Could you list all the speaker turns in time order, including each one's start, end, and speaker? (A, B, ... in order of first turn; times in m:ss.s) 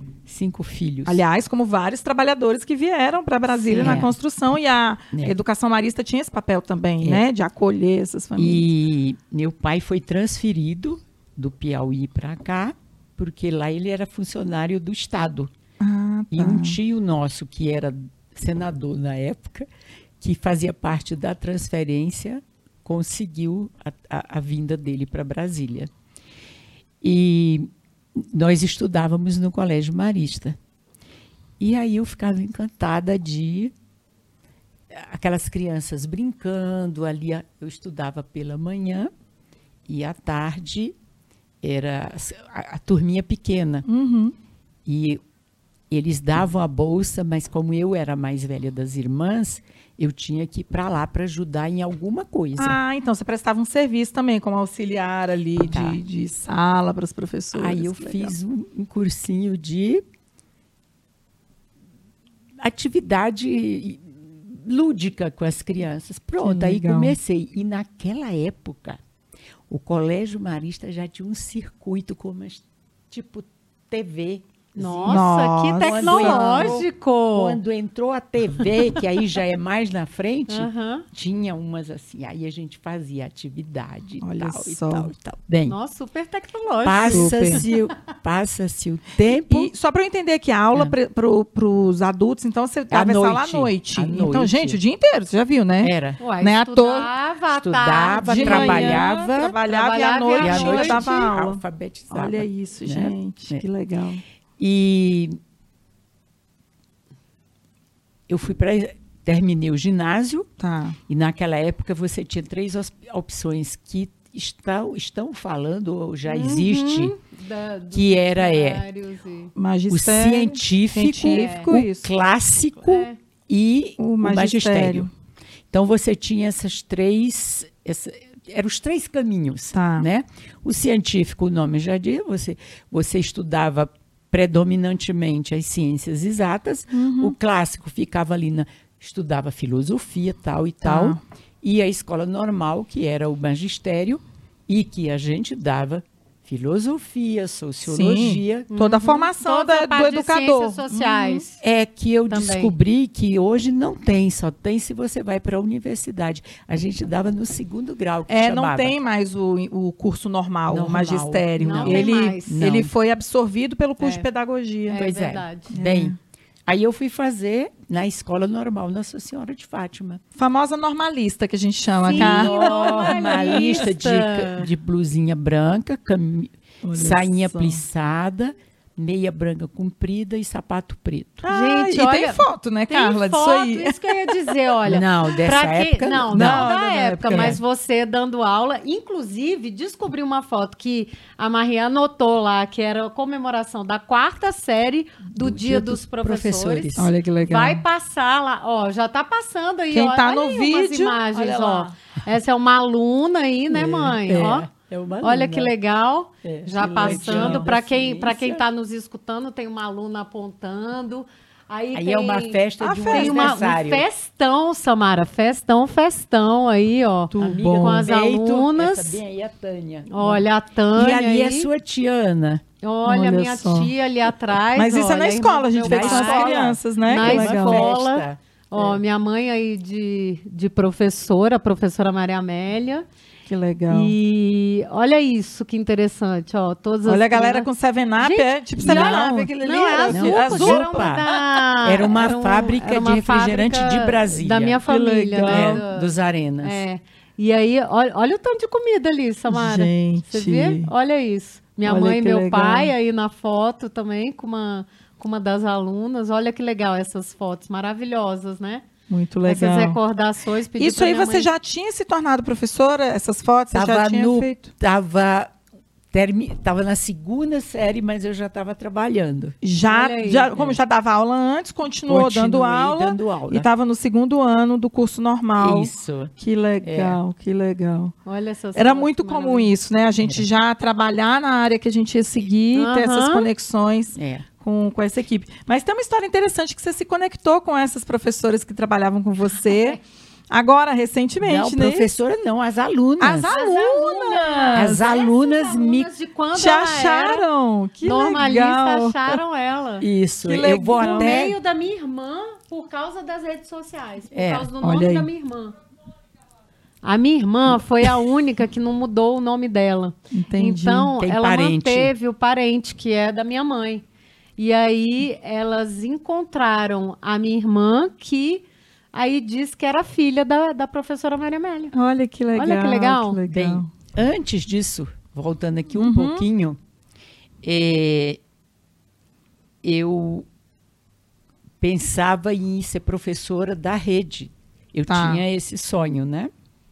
0:00.3-0:01.2 A
0:01.1-0:08.6 B
0:03.7-0:04.0 C
0:03.7-0:04.2 A
0:08.4-0:15.5 A
0:15.8-0:16.8 B
0:16.3-0:19.7 A
0:20.2-0:25.9 A
0:27.0-0:30.6 A
0:31.6-0:33.7 A
0:34.9-0:39.1 A
0:39.9-0:41.0 A
0:41.6-0:43.8 A
0:43.9-0:44.4 B
0:44.9-0:45.2 A
0:45.9-0:52.8 A
0:52.6-0:58.3 B
0:55.6-0:56.0 A
0:57.5-1:00.0 A
1:02.6-1:09.0 A
1:06.4-1:07.2 B
1:09.7-1:25.8 A
1:14.8-1:17.6 C
1:15.1-1:16.8 B
1:18.7-1:19.0 C
1:20.5-1:21.1 C
1:24.2-1:25.1 B
1:25.7-1:27.6 C
1:26.8-1:29.7 A
1:27.1-1:27.7 B
1:29.3-1:37.1 B
1:32.9-1:34.8 A
1:35.8-1:36.2 A
1:36.2-1:39.1 C
1:37.6-1:39.6 A
1:38.2-1:44.2 B
1:39.7-1:41.1 C
1:40.4-1:43.6 A
1:44.6-1:45.4 A
1:48.3-1:50.5 A
1:50.6-1:51.0 B
1:51.1-1:57.2 A
1:56.3-1:59.5 C
1:57.9-1:58.8 A
1:59.6-2:02.1 B
1:59.9-2:05.1 A
2:01.3-2:01.7 C
2:02.7-2:03.2 C
2:04.0-2:05.1 B
2:05.7-2:28.7 A
2:09.7-2:10.1 B
2:16.9-2:17.4 B
2:20.8-2:21.2 B
2:27.9-2:31.4 B
2:28.7-2:31.6 C
2:31.6-2:39.0 A
2:32.3-2:32.7 C
2:38.3-2:45.0 B
2:40.7-2:42.9 A
2:41.6-2:42.6 C
2:44.0-2:44.3 C
2:44.9-2:45.7 C
2:44.9-2:50.2 A
2:45.7-2:46.2 B
2:50.4-2:53.8 B
2:52.0-2:54.7 C
2:52.1-3:01.5 A
2:56.8-2:57.8 B
3:01.4-3:04.5 B
3:01.5-3:24.7 C
3:04.8-3:06.7 A
3:06.3-3:07.6 B
3:07.3-3:07.6 A
3:15.3-3:17.1 A
3:17.0-3:17.8 B
3:19.9-3:21.2 B
3:21.3-3:21.9 A
3:23.7-3:25.7 A
3:25.2-3:39.2 C
3:26.4-3:28.6 A
3:27.0-3:27.7 B
3:31.9-3:34.0 A
3:32.8-3:33.6 B
3:37.3-3:38.1 B
3:37.4-3:42.6 A
3:40.1-3:41.7 C
3:42.8-3:53.1 C
3:43.0-3:43.9 B
3:44.8-3:47.9 B
3:45.8-3:49.0 A
3:53.5-3:54.2 B
3:53.9-4:06.1 C
3:57.1-4:01.4 B
3:58.8-3:59.4 A
4:00.1-4:01.3 A
4:01.8-4:04.8 A
4:04.9-4:05.8 B
4:05.4-4:06.8 A
4:06.6-4:18.9 C
4:09.5-4:10.9 B
4:11.8-4:12.9 B
4:19.1-4:20.0 B
4:19.4-4:21.5 C
4:20.8-4:24.7 B
4:23.7-4:25.5 A
4:26.1-4:29.6 A
4:29.6-4:38.1 B
4:29.8-4:30.7 C
4:32.1-4:33.7 A
4:35.6-4:37.2 A
4:38.2-4:39.7 C
4:38.8-4:50.0 B
4:40.2-4:40.5 A
4:42.8-4:43.5 C
4:44.2-4:44.5 A
4:49.7-4:50.0 C
4:50.5-4:52.1 B
4:51.4-4:53.5 A
4:53.2-4:55.0 B
4:53.5-4:57.4 C
4:54.7-4:56.1 A
4:56.5-4:59.4 B
4:58.0-5:00.1 C
5:00.0-5:01.6 A
5:00.4-5:01.6 B
5:01.0-5:05.8 C
5:04.3-5:04.7 A
5:04.8-5:05.3 B
5:07.0-5:14.0 C
5:10.3-5:11.1 B
5:11.2-5:12.1 A
5:14.6-5:21.9 C
5:21.9-5:23.9 B
5:22.5-5:23.4 C
5:23.5-5:26.8 A
5:25.9-5:26.5 B
5:27.6-5:28.4 A
5:29.8-5:30.5 A
5:31.8-5:36.5 A
5:35.1-5:35.4 B